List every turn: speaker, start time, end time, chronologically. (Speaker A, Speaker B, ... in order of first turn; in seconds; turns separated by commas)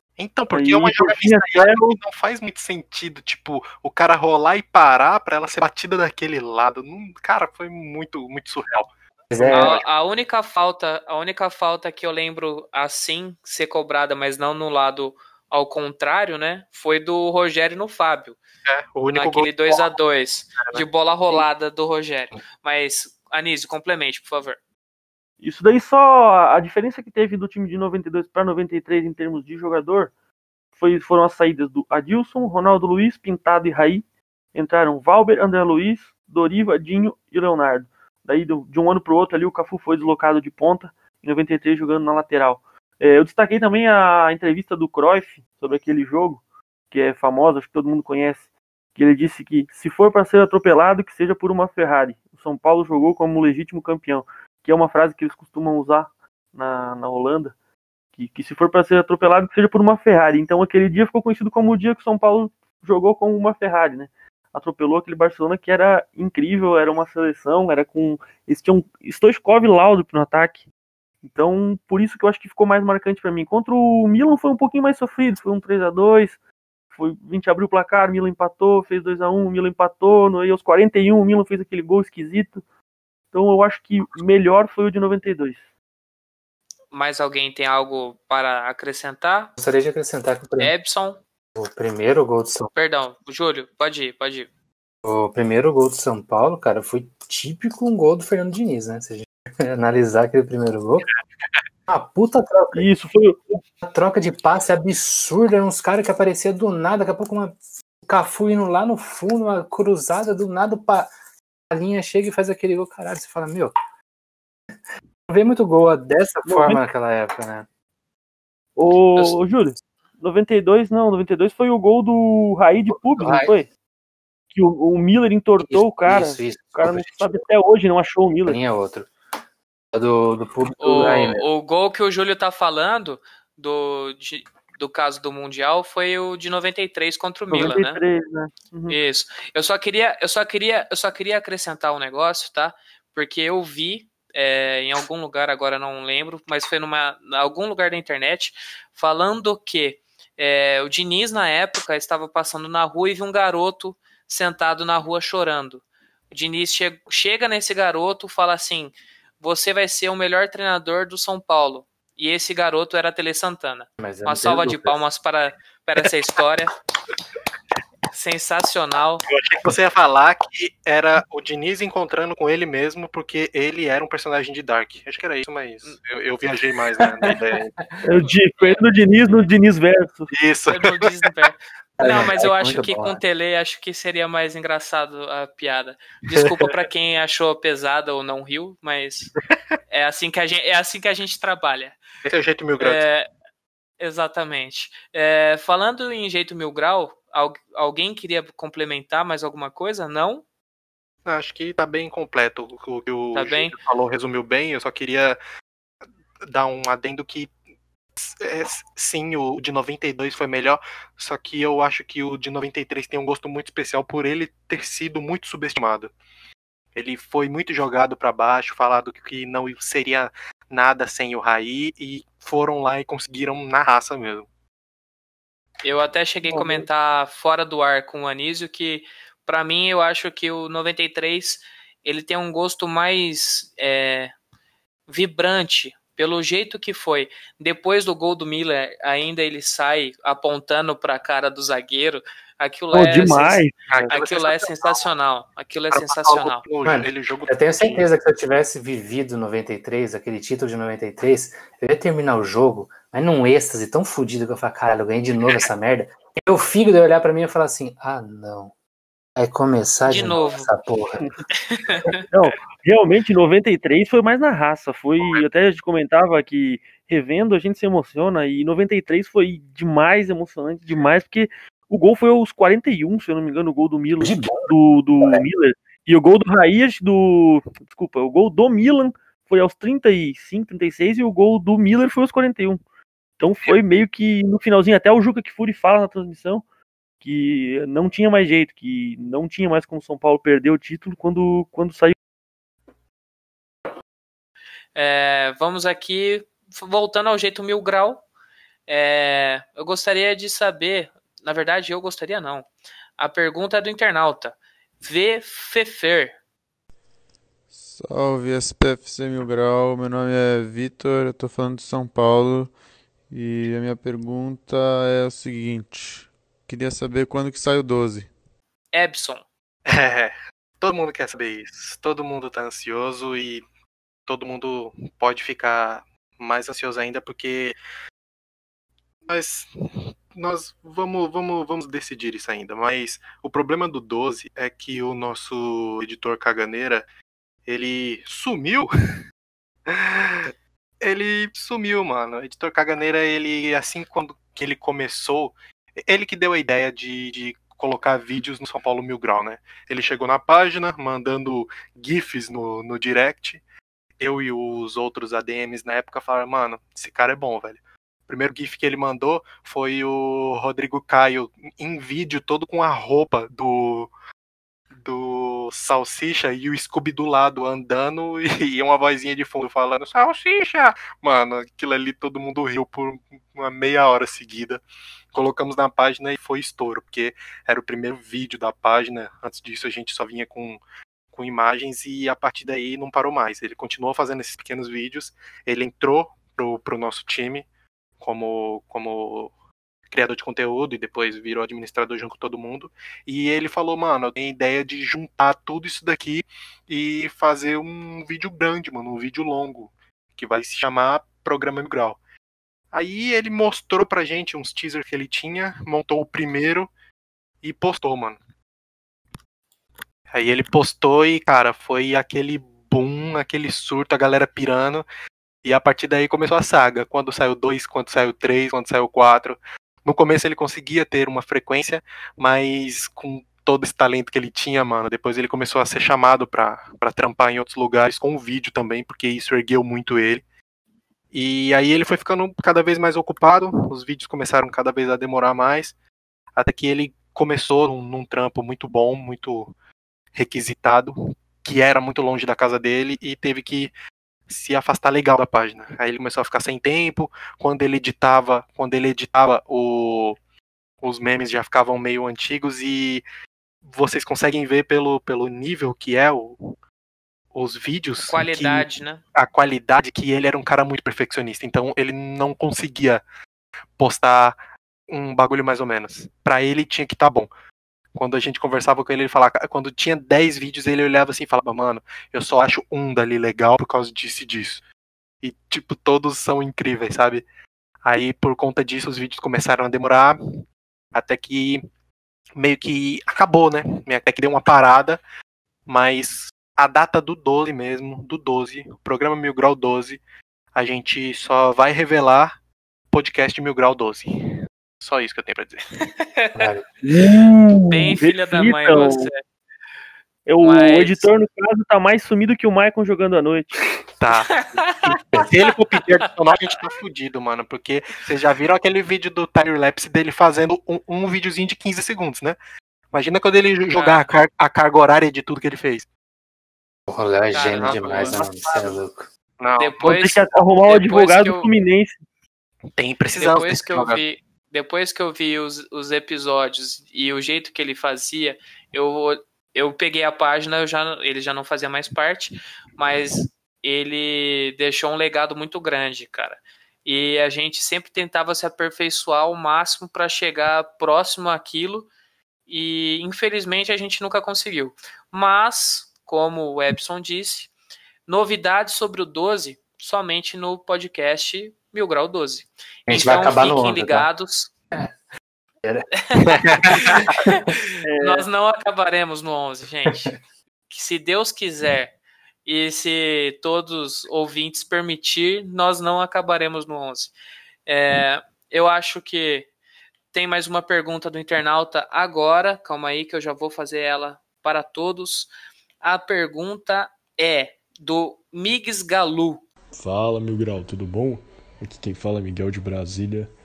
Speaker A: 0.2-8.9, Speaker B: 0.5-2.0, Speaker C: 9.3-9.8, Speaker B: 9.4-9.7, Speaker D: 9.5-18.4, Speaker A: 18.6-19.9, Speaker D: 19.1-24.6, Speaker A: 20.6-20.8, Speaker B: 25.4-30.1, Speaker B: 30.8-34.0, Speaker B: 34.5-57.5, Speaker B: 58.1-70.6, Speaker B: 71.2-76.4, Speaker B: 76.9-82.6, Speaker B: 83.3-85.6, Speaker D: 86.9-89.5, Speaker C: 89.6-90.7, Speaker D: 90.6-91.2, Speaker C: 91.5-92.7, Speaker D: 92.7-94.5, Speaker C: 95.0-101.1, Speaker C: 101.9-102.9, Speaker B: 102.7-103.6, Speaker C: 103.8-111.1, Speaker C: 111.7-113.7, Speaker C: 115.3-117.7, Speaker B: 116.5-116.8, Speaker B: 118.8-123.7, Speaker C: 122.9-123.5, Speaker B: 124.5-128.6, Speaker C: 125.6-127.4, Speaker C: 128.4-129.1, Speaker C: 129.9-131.4, Speaker D: 130.8-138.0, Speaker B: 137.5-139.0, Speaker D: 138.9-166.7, Speaker C: 164.0-164.9, Speaker D: 168.1-169.2, Speaker A: 169.3-177.7, Speaker B: 178.0-180.3, Speaker A: 180.3-181.0, Speaker D: 180.7-189.3, Speaker C: 182.0-183.2, Speaker D: 189.9-192.0, Speaker A: 192.2-193.0, Speaker D: 192.8-193.2, Speaker D: 194.0-200.4, Speaker A: 201.2-205.4, Speaker D: 203.3-203.7, Speaker A: 206.4-207.5, Speaker A: 208.2-216.1, Speaker A: 216.9-224.4, Speaker D: 225.8-234.3, Speaker B: 226.5-226.8, Speaker D: 235.1-246.6, Speaker B: 242.9-243.7, Speaker A: 243.9-245.1, Speaker A: 245.9-248.1, Speaker C: 246.8-258.7, Speaker C: 259.4-261.2, Speaker D: 260.1-260.7, Speaker D: 261.6-262.2, Speaker B: 262.3-282.8, Speaker C: 274.2-275.5, Speaker B: 283.4-286.6, Speaker B: 287.2-292.1, Speaker D: 294.9-298.2, Speaker D: 298.9-302.7, Speaker D: 303.2-306.4, Speaker E: 307.9-318.3, Speaker D: 318.9-319.4, Speaker A: 319.9-323.6, Speaker A: 324.3-327.8, Speaker A: 329.3-337.0, Speaker A: 337.7-338.9, Speaker A: 339.9-353.6, Speaker A: 354.2-364.1, Speaker A: 364.9-374.8, Speaker A: 375.3-380.8, Speaker A: 381.3-387.6, Speaker A: 388.2-389.5, Speaker A: 390.1-402.2, Speaker A: 402.9-406.9, Speaker A: 407.6-408.4, Speaker A: 410.3-415.0, Speaker A: 415.6-430.4, Speaker A: 431.3-435.9, Speaker A: 436.6-439.7, Speaker A: 440.3-443.9, Speaker A: 444.5-450.4, Speaker A: 451.0-453.2, Speaker A: 453.8-456.7, Speaker A: 457.5-463.2, Speaker D: 458.2-459.2, Speaker A: 464.0-464.6, Speaker A: 465.1-467.5, Speaker A: 468.1-474.8, Speaker A: 475.4-477.4, Speaker A: 478.0-480.6, Speaker A: 481.1-481.8, Speaker A: 482.6-485.2, Speaker A: 485.9-490.2, Speaker A: 490.7-492.6, Speaker A: 493.1-495.8, Speaker D: 496.2-496.6, Speaker C: 496.5-496.8, Speaker B: 497.0-499.3, Speaker D: 497.9-499.4, Speaker B: 500.4-503.9, Speaker D: 500.6-501.3, Speaker A: 504.2-512.5, Speaker D: 504.5-505.1, Speaker A: 513.1-516.1, Speaker D: 513.9-514.2, Speaker C: 517.1-519.3, Speaker D: 517.5-518.9, Speaker A: 517.8-518.3, Speaker A: 519.6-520.0, Speaker D: 519.8-521.7, Speaker B: 520.0-522.1, Speaker A: 523.0-524.2, Speaker D: 523.4-542.1, Speaker D: 542.7-547.7, Speaker D: 548.3-554.7, Speaker C: 553.1-554.3, Speaker C: 555.8-557.0, Speaker D: 556.3-560.3, Speaker B: 558.0-558.5, Speaker D: 560.9-562.1, Speaker D: 562.6-567.3, Speaker D: 567.9-569.6, Speaker D: 570.3-575.5, Speaker D: 576.0-579.6, Speaker F: 580.0-583.5